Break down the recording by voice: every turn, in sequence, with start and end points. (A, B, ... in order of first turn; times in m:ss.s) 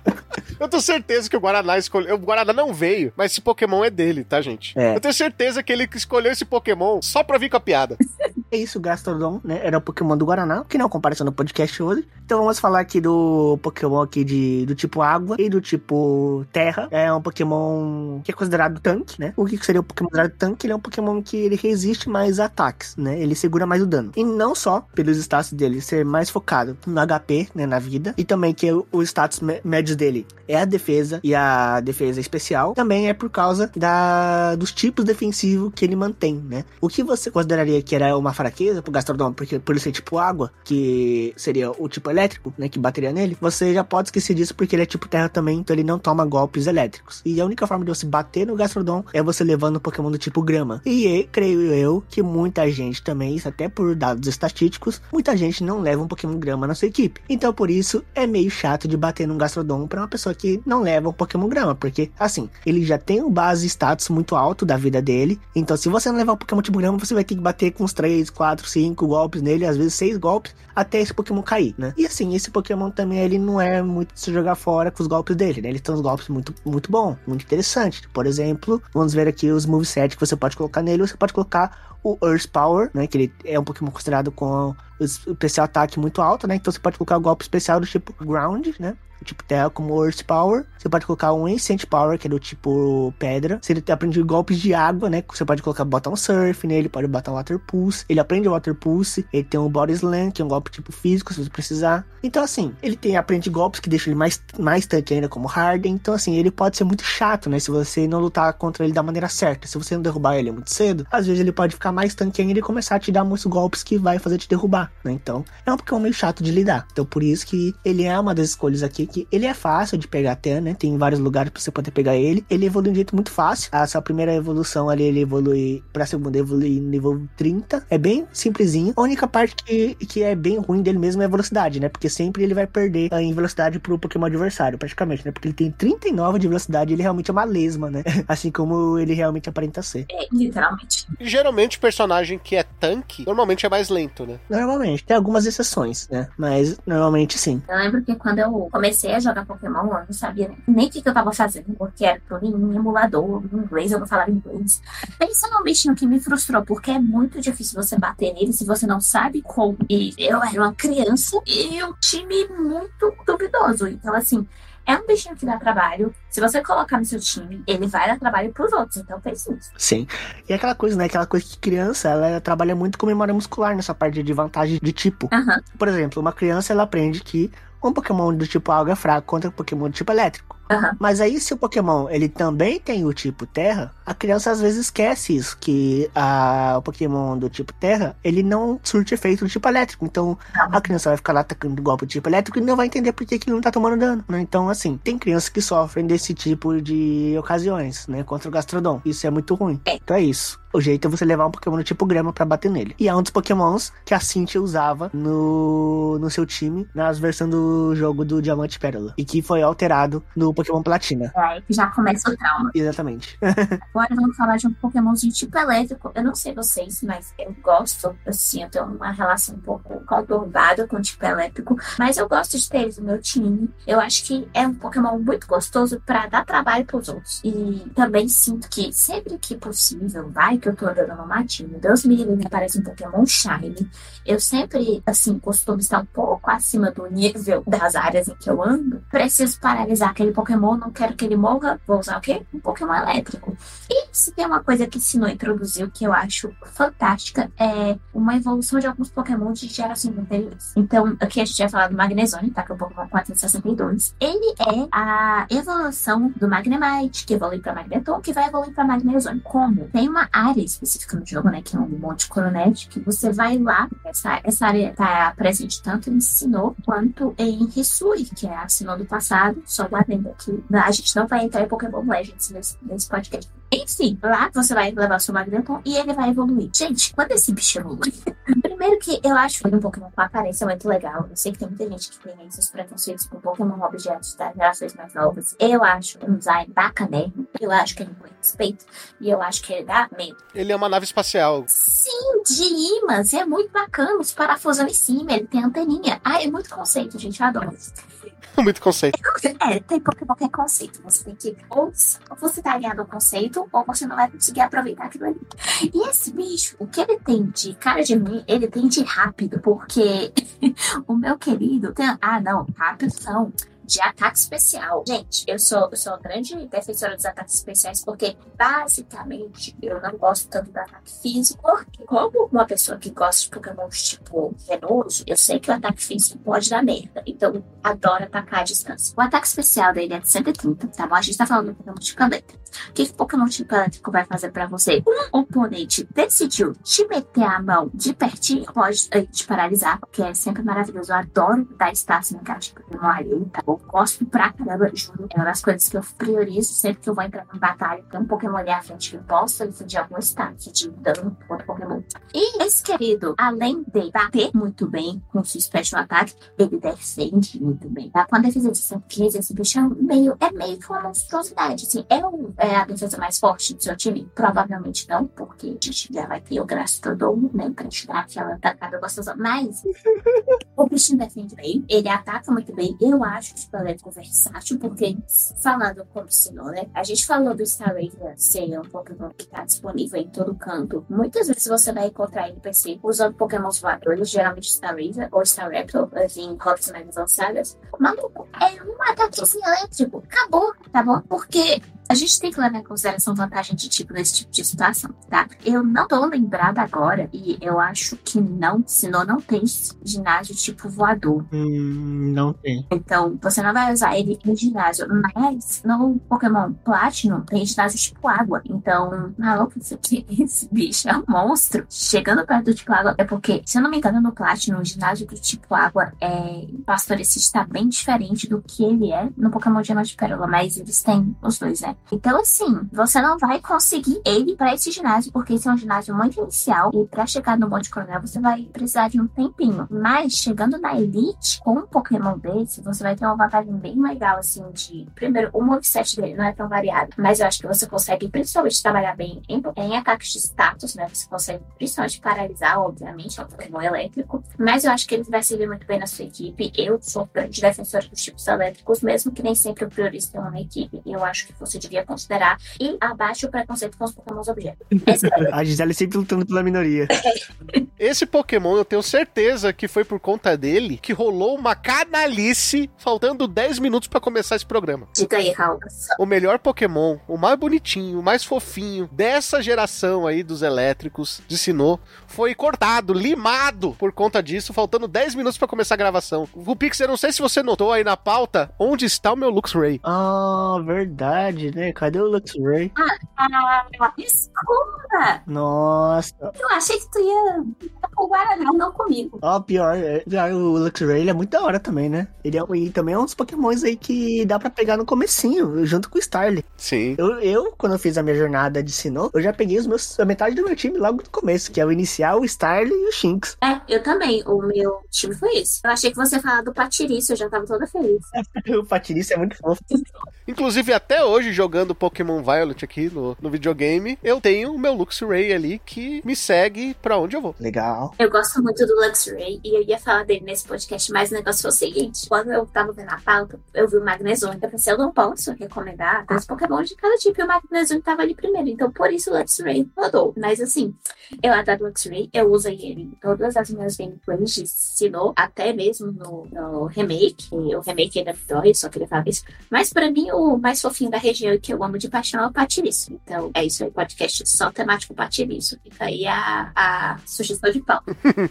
0:00.6-0:08.0 A
0:04.8-0:05.0 B
0:08.5-2:20.1 B
2:20.1-2:21.1 C
2:21.2-2:24.4 A
2:24.5-2:27.6 B
2:27.7-2:49.7 C
2:49.8-3:31.3 B
2:55.3-2:55.6 C
3:00.7-3:01.0 C
3:10.5-3:10.8 C
3:31.3-3:32.7 C
3:32.7-3:33.8 B
3:33.9-4:50.4 C
4:50.5-4:51.7 A
4:51.7-4:58.0 C
4:58.6-4:59.2 A
4:59.2-6:09.9 C
6:10.8-6:41.5 C
6:41.5-6:42.8 B
6:42.9-7:35.5 C
7:35.1-7:37.1 B
7:37.2-7:37.8 C
7:38.0-7:45.1 A
7:45.2-7:46.2 C
7:46.2-8:00.0 A
8:00.0-8:02.9 B
8:03.0-8:05.4 C
8:05.5-8:06.5 B
8:06.6-8:09.4 C
8:09.4-8:16.7 B
8:16.8-8:17.2 A
8:17.2-8:23.6 B
8:23.6-8:28.3 C
8:28.3-8:29.8 B
8:30.5-8:37.6 A
8:37.6-8:38.1 B
8:38.2-9:08.1 C